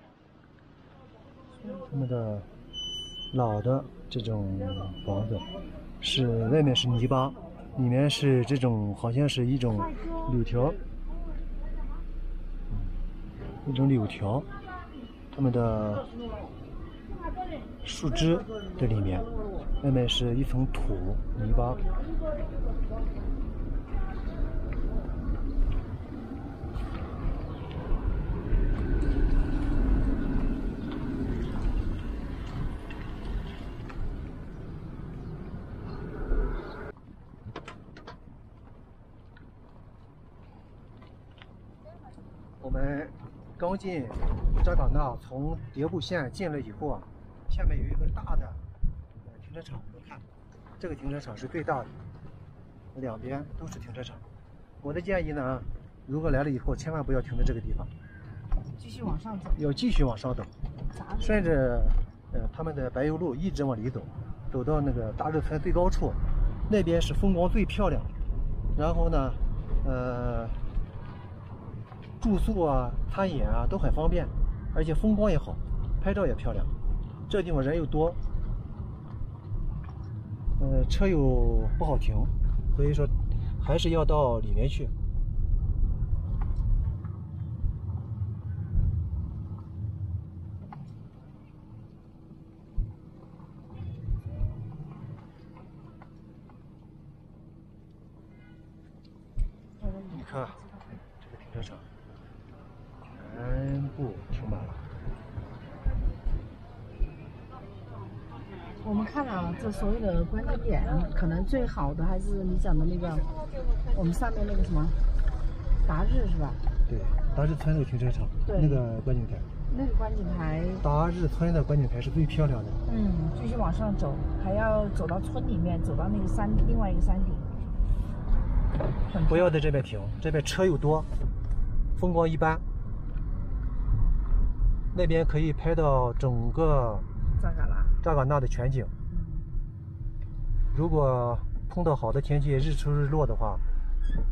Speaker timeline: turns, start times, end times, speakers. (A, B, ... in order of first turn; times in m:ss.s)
0:01.6-0:01.9 A
0:01.9-0:02.5 B
0:03.3-0:05.5 B
0:06.0-0:10.8 B
0:13.6-0:14.5 B
0:15.3-0:16.1 B
0:17.8-0:19.3 B
0:19.8-0:21.8 B
0:42.6-0:48.6 B
0:49.2-0:50.2 B
0:50.8-0:52.0 B
0:52.9-0:54.2 B
0:54.8-0:57.9 B
0:58.8-0:59.6 A
0:59.6-1:00.5 B
1:00.9-1:01.6 A
1:01.2-1:08.1 B
1:08.8-1:10.6 B
1:12.2-1:16.7 B
1:17.3-1:18.2 B
1:20.6-1:24.9 B
1:39.8-1:41.0 A
1:40.1-1:40.6 B
1:41.2-1:41.9 B
1:43.0-1:44.8 B
1:48.8-1:53.3 A
1:53.9-1:55.0 A
1:55.8-1:56.6 A
1:56.9-1:59.5 B
1:58.5-1:58.8 A
1:59.7-2:00.8 A
2:00.8-2:02.8 B
2:02.9-2:07.5 A
2:09.1-2:09.5 A
2:09.3-2:11.1 B
2:12.0-2:12.6 B
2:14.9-2:17.1 B
2:17.4-2:18.0 A
2:18.0-2:18.9 B
2:19.1-2:19.4 A
2:20.7-2:23.6 B